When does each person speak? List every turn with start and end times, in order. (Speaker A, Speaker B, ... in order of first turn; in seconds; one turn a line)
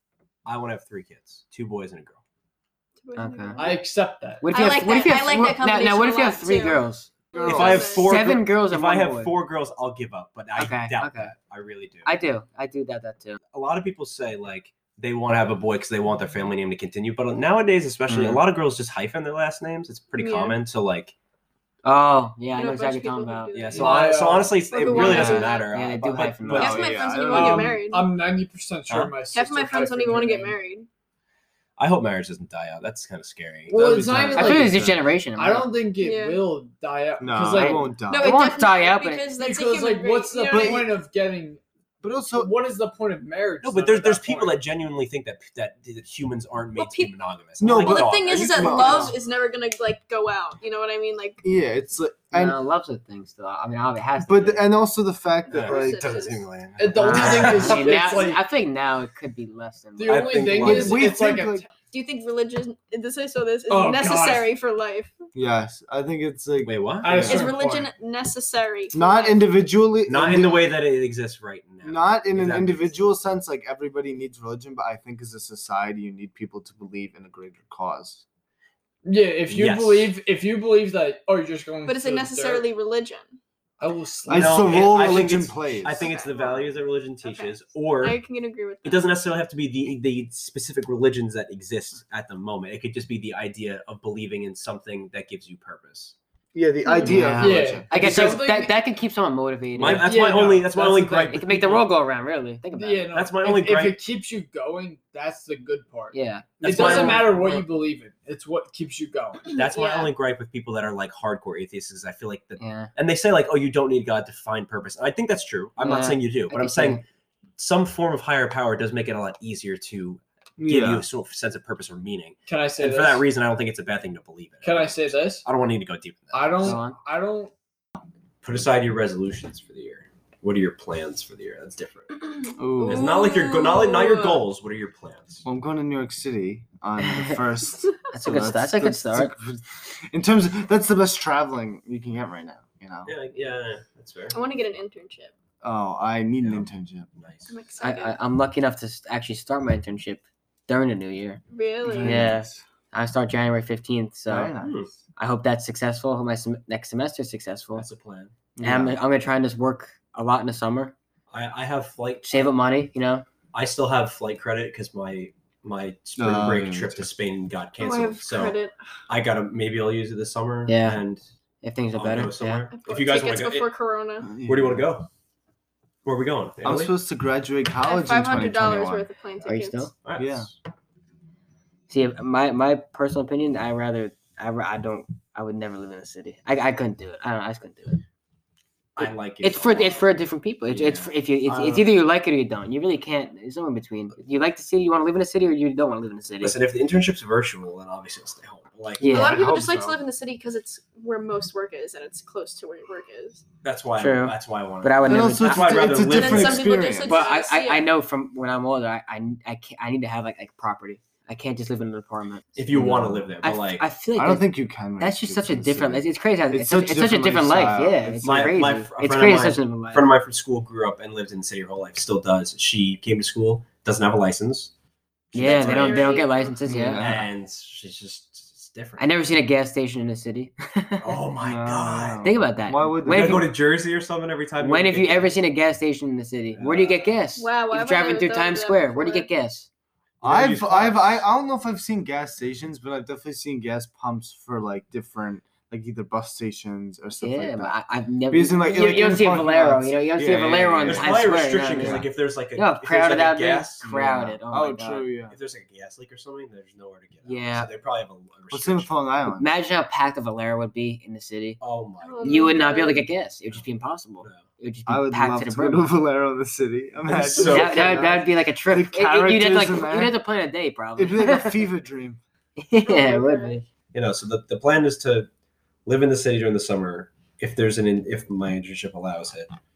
Speaker A: 0.4-2.2
Speaker B: 3.0-3.8
Speaker C: 3.1-3.6
Speaker D: 3.5-4.8
Speaker C: 4.4-7.1
Speaker B: 4.5-8.1
Speaker E: 7.3-8.0
Speaker A: 7.4-12.1
Speaker C: 7.9-9.3
Speaker C: 10.6-11.3
Speaker C: 12.0-13.4
Speaker A: 13.5-21.1
Speaker C: 18.1-18.4
Speaker B: 20.2-20.6
Speaker C: 21.8-23.8
Speaker B: 22.5-25.7
Speaker A: 23.5-27.1
Speaker D: 23.7-24.6
Speaker C: 24.9-26.9
Speaker E: 26.5-27.8
Speaker B: 26.5-28.1
Speaker D: 27.1-30.6
Speaker A: 28.9-29.1
Speaker B: 29.3-30.9
Speaker A: 31.8-33.7
Speaker D: 33.7-34.8
Speaker E: 33.7-35.0
Speaker C: 34.3-35.7
Speaker D: 35.4-37.9
Speaker B: 36.0-36.4
Speaker E: 37.2-38.5
Speaker C: 37.5-39.3
Speaker B: 38.0-40.9
Speaker D: 39.3-41.6
Speaker E: 40.4-40.9
Speaker E: 42.0-42.5
Speaker D: 42.3-44.6
Speaker A: 43.6-49.1
Speaker B: 46.8-47.1
Speaker E: 47.6-49.1
Speaker B: 47.7-51.4
Speaker E: 51.4-52.6
Speaker C: 52.3-54.6
Speaker E: 54.2-56.3
Speaker B: 55.5-56.5
Speaker A: 55.5-57.9
Speaker D: 56.8-58.4
Speaker C: 56.9-60.6
Speaker E: 57.1-57.5
Speaker D: 60.0-61.7
Speaker A: 60.1-61.1
Speaker E: 60.6-61.6
Speaker B: 61.9-65.1
Speaker D: 63.7-64.5
Speaker E: 65.3-67.5
Speaker A: 66.6-67.4
Speaker D: 67.0-67.9
Speaker B: 67.2-69.5
Speaker E: 68.9-70.7
Speaker A: 70.0-73.1
Speaker E: 71.8-78.2
Speaker D: 79.0-82.7
Speaker A: 79.5-80.1
Speaker B: 81.8-83.3
Speaker D: 83.8-85.0
Speaker E: 84.2-86.1
Speaker A: 84.3-88.2
Speaker B: 85.9-89.1
Speaker A: 88.8-96.2
Speaker E: 96.5-98.3
Speaker B: 96.8-97.3
Speaker C: 97.0-100.2
Speaker D: 97.3-98.7
Speaker A: 99.8-101.8
Speaker D: 99.8-101.4
Speaker C: 101.3-103.1
Speaker D: 102.7-109.6
Speaker A: 103.1-104.0
Speaker C: 106.1-107.5
Speaker A: 106.6-107.5
Speaker A: 109.5-117.0
Speaker B: 109.6-110.1
Speaker C: 112.6-112.9
Speaker C: 115.8-117.0
Speaker A: 117.6-126.8
Speaker E: 120.6-121.0
Speaker D: 122.5-123.2
Speaker D: 124.6-125.4
Speaker D: 126.3-127.5
Speaker C: 126.6-127.0
Speaker A: 128.4-132.2
Speaker B: 132.3-134.4
Speaker E: 132.6-133.1
Speaker A: 132.8-135.4
Speaker E: 135.4-143.1
Speaker C: 137.0-137.4
Speaker C: 138.1-139.3
Speaker A: 143.1-144.4
Speaker B: 144.3-145.3
Speaker E: 145.6-147.1
Speaker A: 146.4-147.5
Speaker B: 147.5-148.2
Speaker C: 147.8-151.4
Speaker B: 151.5-152.2
Speaker E: 151.8-152.6
Speaker C: 152.0-154.5
Speaker E: 154.3-154.9
Speaker A: 154.6-154.9
Speaker C: 155.2-157.8
Speaker A: 157.7-158.3
Speaker E: 158.6-159.0
Speaker C: 158.6-160.9
Speaker A: 161.3-162.5
Speaker C: 162.2-163.2
Speaker A: 163.5-168.6
Speaker E: 166.2-167.1
Speaker B: 167.8-168.8
Speaker A: 169.1-171.2
Speaker C: 170.7-171.0
Speaker C: 171.6-172.7
Speaker A: 171.9-173.7
Speaker B: 172.8-174.3
Speaker E: 174.2-174.9
Speaker A: 174.4-175.1
Speaker A: 176.0-176.9
Speaker E: 176.6-179.1
Speaker B: 177.8-179.9
Speaker C: 179.4-179.9
Speaker A: 180.0-180.5
Speaker E: 180.2-180.5
Speaker C: 181.9-188.0
Speaker A: 188.9-190.1
Speaker C: 189.0-196.6
Speaker A: 190.7-191.8
Speaker E: 191.5-191.8
Speaker A: 196.4-199.3
Speaker C: 199.0-199.4
Speaker B: 199.0-203.4
Speaker E: 199.1-200.0
Speaker A: 203.6-206.8
Speaker C: 204.0-205.9
Speaker E: 205.0-207.3
Speaker B: 206.0-207.9
Speaker C: 207.0-212.6
Speaker A: 212.6-213.8
Speaker E: 212.7-213.2
Speaker C: 213.4-214.5
Speaker E: 214.1-218.6
Speaker C: 215.0-220.1
Speaker A: 218.2-224.7
Speaker A: 225.3-226.3
Speaker C: 225.3-227.2
Speaker B: 225.4-226.6
Speaker E: 226.7-227.3
Speaker A: 226.9-229.0
Speaker C: 229.0-231.1
Speaker A: 231.0-232.3
Speaker E: 231.4-233.5
Speaker C: 232.2-233.5
Speaker A: 233.0-235.3
Speaker C: 234.6-239.7
Speaker A: 236.6-237.0
Speaker B: 237.4-239.3
Speaker A: 240.2-241.2
Speaker E: 240.2-247.7
Speaker C: 247.2-255.1
Speaker E: 248.3-252.1
Speaker A: 250.8-254.2
Speaker E: 253.8-255.3
Speaker A: 255.3-258.9
Speaker C: 257.2-257.7
Speaker E: 258.5-259.4
Speaker C: 259.3-261.6
Speaker A: 261.6-262.6
Speaker B: 262.0-263.1
Speaker C: 262.2-265.9
Speaker E: 264.9-270.2
Speaker A: 267.0-268.0
Speaker C: 267.4-271.6
Speaker E: 271.0-272.2
Speaker C: 272.6-273.6
Speaker B: 272.8-273.6
Speaker A: 273.9-275.3
Speaker A: 275.9-279.5